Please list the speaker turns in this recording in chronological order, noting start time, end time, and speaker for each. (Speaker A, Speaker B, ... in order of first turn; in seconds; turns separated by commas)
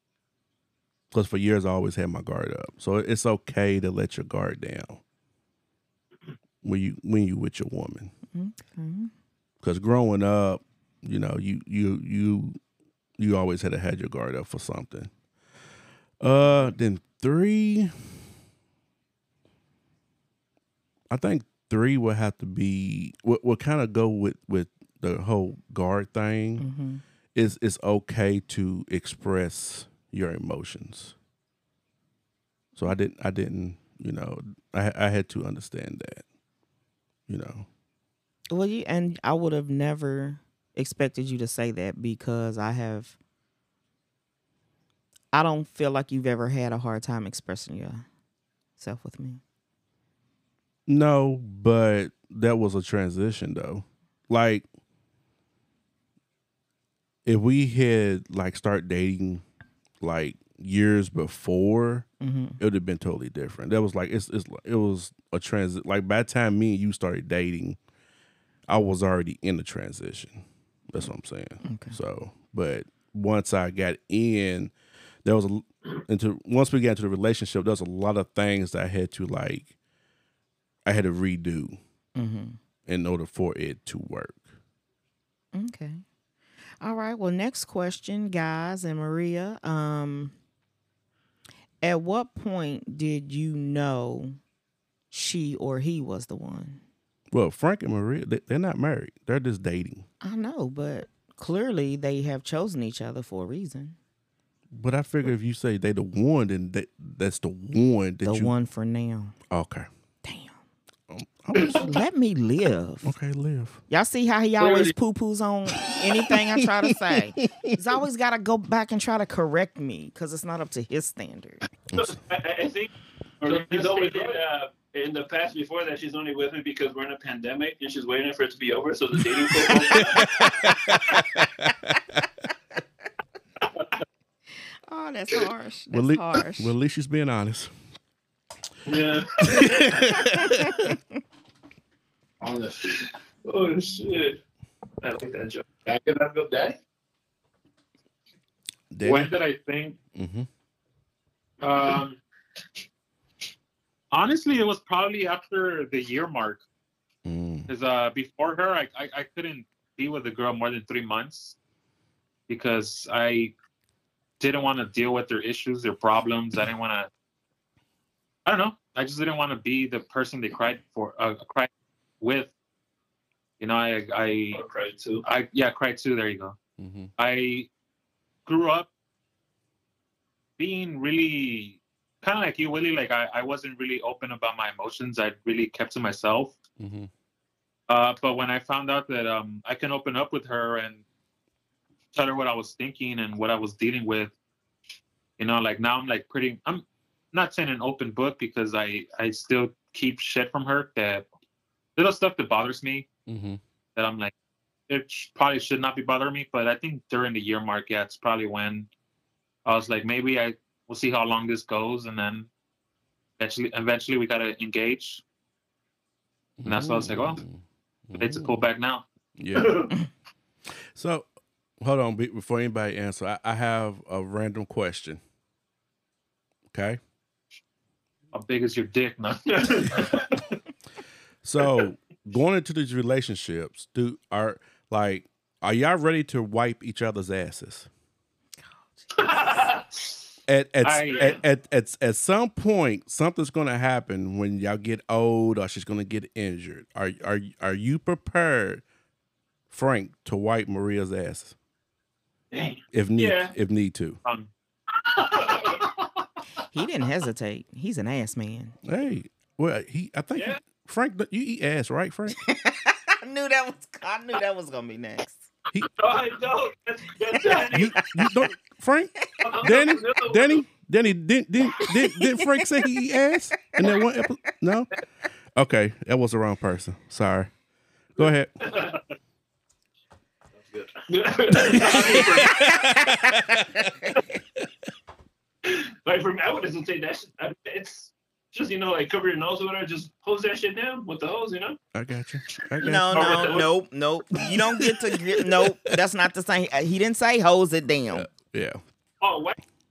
Speaker A: 1.1-5.0, Speaker A: 6.6-8.1, Speaker B: 8.3-9.1, Speaker A: 9.6-12.6, Speaker A: 13.2-15.1, Speaker A: 16.2-18.1, Speaker A: 21.1-26.6, Speaker B: 26.6-27.0, Speaker A: 27.3-31.1, Speaker A: 32.8-36.2, Speaker A: 37.3-37.7, Speaker B: 38.5-43.2, Speaker B: 45.3-48.1, Speaker B: 48.8-49.4, Speaker A: 50.9-54.6, Speaker A: 57.2-59.4, Speaker A: 60.0-62.1, Speaker B: 62.2-62.6, Speaker A: 62.6-67.8, Speaker A: 68.7-74.7, Speaker B: 71.6-72.0, Speaker A: 75.2-79.7, Speaker A: 80.8-81.8, Speaker B: 82.2-82.6, Speaker A: 82.8-84.5, Speaker B: 85.5-86.0, Speaker B: 86.8-90.3, Speaker B: 91.8-94.4, Speaker B: 95.1-96.8, Speaker A: 97.3-100.1, Speaker B: 100.2-104.0, Speaker A: 104.7-108.5, Speaker B: 108.2-109.4, Speaker A: 109.5-109.9, Speaker B: 110.2-110.6, Speaker A: 111.1-111.9, Speaker B: 111.6-113.1, Speaker A: 113.0-113.8, Speaker B: 113.9-121.6, Speaker A: 116.3-118.0, Speaker C: 122.0-130.5, Speaker D: 123.4-124.3, Speaker A: 130.0-132.2, Speaker B: 134.9-136.7, Speaker A: 135.9-137.7, Speaker C: 138.8-139.8, Speaker A: 139.4-140.9, Speaker B: 140.4-141.0, Speaker E: 142.4-142.9, Speaker C: 143.4-144.4, Speaker C: 145.0-145.7, Speaker E: 145.8-146.8, Speaker A: 148.9-149.3, Speaker D: 149.0-150.0, Speaker A: 150.1-150.5, Speaker D: 151.6-152.2, Speaker D: 154.1-156.6, Speaker A: 157.2-157.7, Speaker D: 157.7-161.6, Speaker D: 162.5-163.5, Speaker D: 164.4-167.1, Speaker D: 168.4-172.5, Speaker D: 173.6-174.6, Speaker C: 174.5-175.2, Speaker D: 175.2-176.6, Speaker A: 176.8-177.1, Speaker D: 177.2-177.7, Speaker D: 178.4-178.9, Speaker D: 180.6-186.6, Speaker A: 186.8-187.1, Speaker D: 187.9-191.0, Speaker D: 192.1-194.3, Speaker D: 195.4-201.2, Speaker D: 201.9-203.1, Speaker A: 203.3-203.6, Speaker D: 203.9-204.3, Speaker D: 204.9-208.9, Speaker D: 209.6-212.5, Speaker D: 213.4-215.2, Speaker A: 216.6-218.5, Speaker D: 216.6-217.4, Speaker D: 218.2-219.0, Speaker A: 219.4-219.9, Speaker C: 219.5-219.9, Speaker A: 220.9-221.3, Speaker A: 221.8-225.2, Speaker A: 226.7-227.0, Speaker D: 228.3-230.0, Speaker C: 229.4-230.3, Speaker A: 231.4-237.9, Speaker C: 239.2-240.0, Speaker A: 240.5-248.8, Speaker D: 240.8-241.3, Speaker C: 241.1-241.4, Speaker A: 249.7-251.5, Speaker C: 252.5-253.5, Speaker A: 252.9-254.2, Speaker D: 254.2-254.5, Speaker C: 255.1-255.9, Speaker B: 256.7-258.8, Speaker A: 258.8-262.4, Speaker C: 260.3-260.6, Speaker B: 262.4-265.5, Speaker C: 265.9-268.3, Speaker B: 267.4-267.9, Speaker A: 267.7-274.9, Speaker C: 269.4-270.6, Speaker B: 271.9-272.6, Speaker B: 273.6-274.0, Speaker A: 275.6-277.5, Speaker A: 278.1-278.5, Speaker C: 278.6-279.0, Speaker E: 280.7-281.9, Speaker C: 281.1-282.7, Speaker A: 281.7-283.8, Speaker B: 282.7-283.3, Speaker C: 285.6-291.8, Speaker A: 291.9-293.4, Speaker C: 292.7-293.7, Speaker B: 292.8-298.2, Speaker A: 298.1-298.8, Speaker C: 299.2-299.6